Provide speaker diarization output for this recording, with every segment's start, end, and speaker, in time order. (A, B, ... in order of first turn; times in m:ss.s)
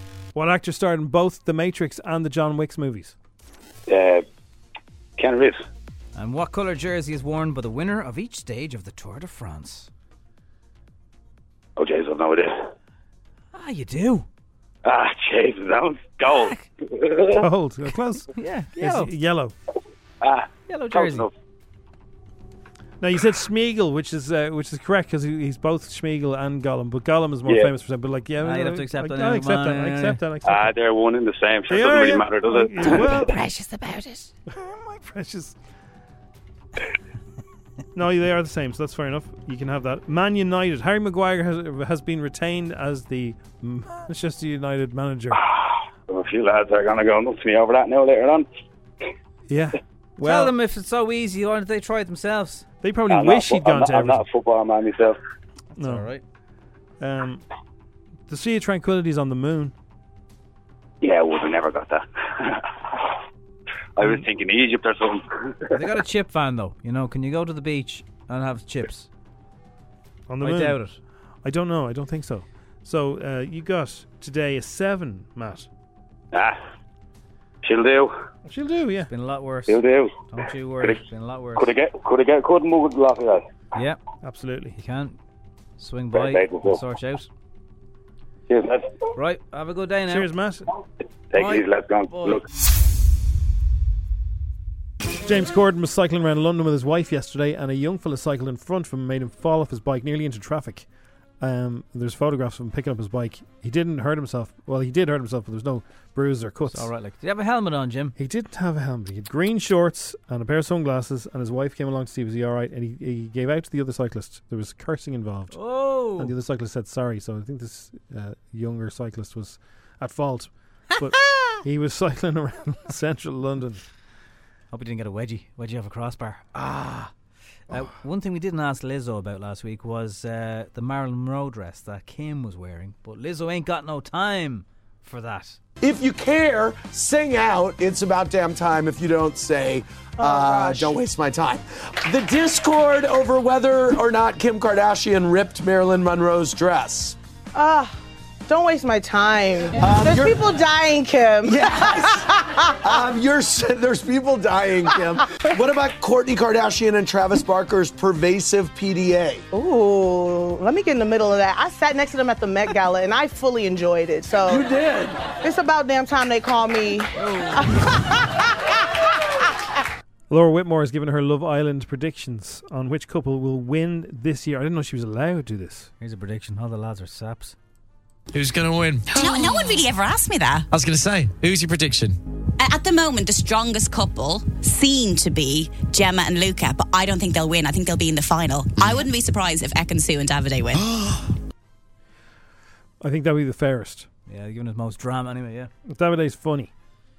0:00.4-0:03.2 A
0:03.9-0:04.2 B
0:05.2-0:05.6 B
0:06.2-0:09.9 C
0:11.8-0:12.7 B
0:13.5-0:14.3 C
0:14.8-0:17.4 B
0:16.4-0:16.6 C
0:17.4-0:19.5 A
0:18.4-0:19.1 C
0:20.2-0:21.3 B
0:20.7-0:21.3 C
0:23.0-0:30.8 A
0:28.4-0:30.2 C
0:30.5-0:33.0 B
0:31.7-0:33.4 A
0:32.8-0:34.3 C
0:34.5-0:35.6 A
0:38.0-0:45.4 A
0:45.5-0:48.5 B
0:49.5-0:50.6 A
0:50.2-0:52.7 C
0:52.8-0:54.2 A
0:53.1-0:55.2 B
0:55.8-0:56.2 C
0:55.8-0:56.1 A
0:57.0-0:57.4 A
0:58.3-0:59.8 A
1:01.0-1:03.0 B
1:04.0-1:05.5 B
1:05.7-1:09.1 C
1:10.3-1:10.8 A
1:10.4-1:11.0 C
1:11.4-1:15.7 A
1:16.3-1:16.6 B
1:17.6-1:18.1 B
1:18.5-1:19.1 A
1:19.1-1:21.7 C
1:19.7-1:20.1 B
1:21.6-1:23.4 B
1:24.2-1:24.8 A
1:24.8-1:25.2 C
1:25.8-1:27.3 C
1:26.1-1:26.8 B
1:28.5-1:28.9 B
1:29.2-1:30.3 C
1:30.1-1:30.7 A
1:31.3-1:32.4 B
1:31.4-1:32.4 C
1:35.2-1:40.9 A
1:41.4-1:46.9 A
1:46.7-1:48.2 C
1:48.2-1:55.6 A
1:55.5-1:56.3 C
1:56.1-2:03.8 A
2:04.7-2:07.1 C
2:07.7-2:15.6 C
2:15.8-2:27.2 D
2:20.2-2:20.9 E
2:27.5-2:32.8 E
2:29.8-2:30.5 D
2:31.5-2:32.3 D
2:32.8-2:39.4 D
2:39.5-2:44.7 E
2:44.5-2:45.2 D
2:45.4-2:47.9 E
2:47.2-2:47.6 C
2:50.3-2:55.9 A
2:56.0-2:57.6 C
2:58.3-2:59.4 F
2:59.1-3:00.7 G
3:00.7-3:02.2 F
3:02.6-3:10.8 G
3:13.0-3:14.1 A
3:14.3-3:15.7 C
3:15.9-3:16.7 A